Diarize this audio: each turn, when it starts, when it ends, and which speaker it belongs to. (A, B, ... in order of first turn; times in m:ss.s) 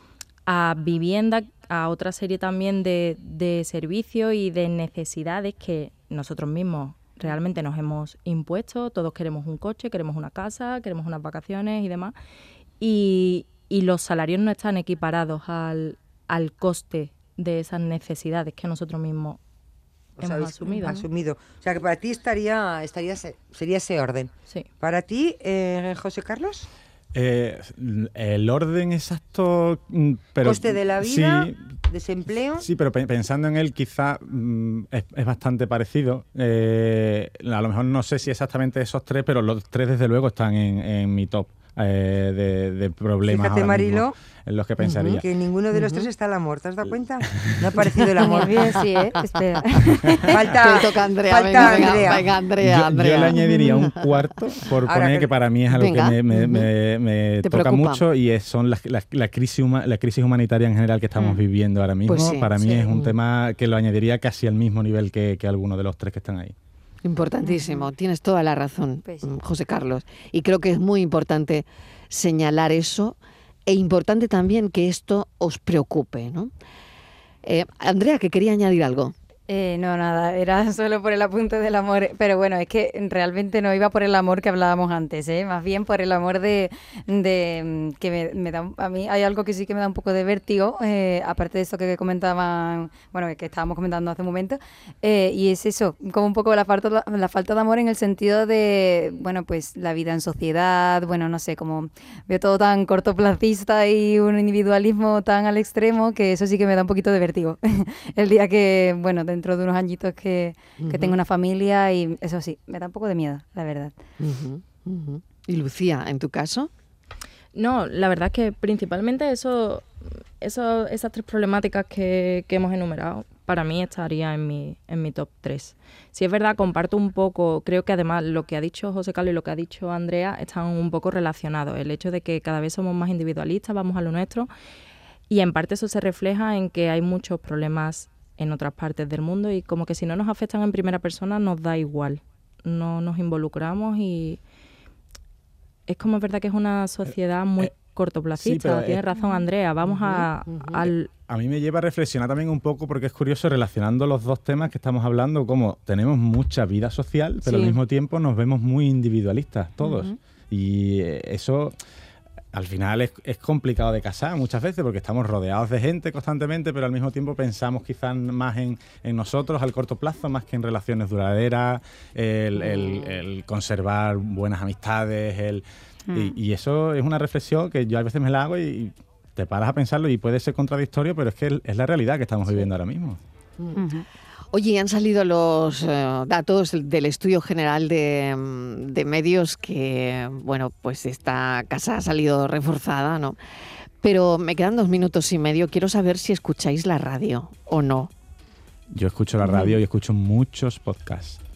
0:00.5-0:12.1 A
0:12.8-0:19.4 A
0:20.2-0:26.7 B
0:20.2-0:21.0 A
0:27.1-0:31.6 C
0:30.4-0:32.6 B
0:32.6-0:45.2 C
0:43.2-0:44.1 B
0:44.8-0:45.2 D
0:45.1-0:48.6 B
0:45.7-0:46.1 D
0:48.2-0:49.2 D
0:48.4-0:49.6 E
0:50.3-0:52.3 B
0:50.5-0:54.3 D
0:52.6-1:06.5 C
0:54.8-0:55.3 B
0:55.7-0:56.7 D
0:57.4-0:58.0 D
1:01.2-1:01.4 D
1:02.0-1:03.1 D
1:07.0-1:13.2 D
1:13.7-1:16.5 D
1:17.4-1:19.1 D
1:19.5-1:53.9 E
1:50.8-1:51.2 D
1:54.2-1:56.7 D
1:57.5-2:14.5 A
2:15.3-2:24.4 A
2:25.9-2:31.1 A
2:28.3-2:29.0 C
2:29.8-2:30.8 D
2:31.3-2:41.8 C
2:37.4-2:37.8 A
2:39.8-2:40.1 D
2:42.5-3:03.2 C
2:52.6-2:53.1 D
3:03.6-3:03.9 D
3:04.5-3:13.4 D
3:14.0-3:18.1 D
3:18.9-3:21.4 C
3:19.4-3:19.8 D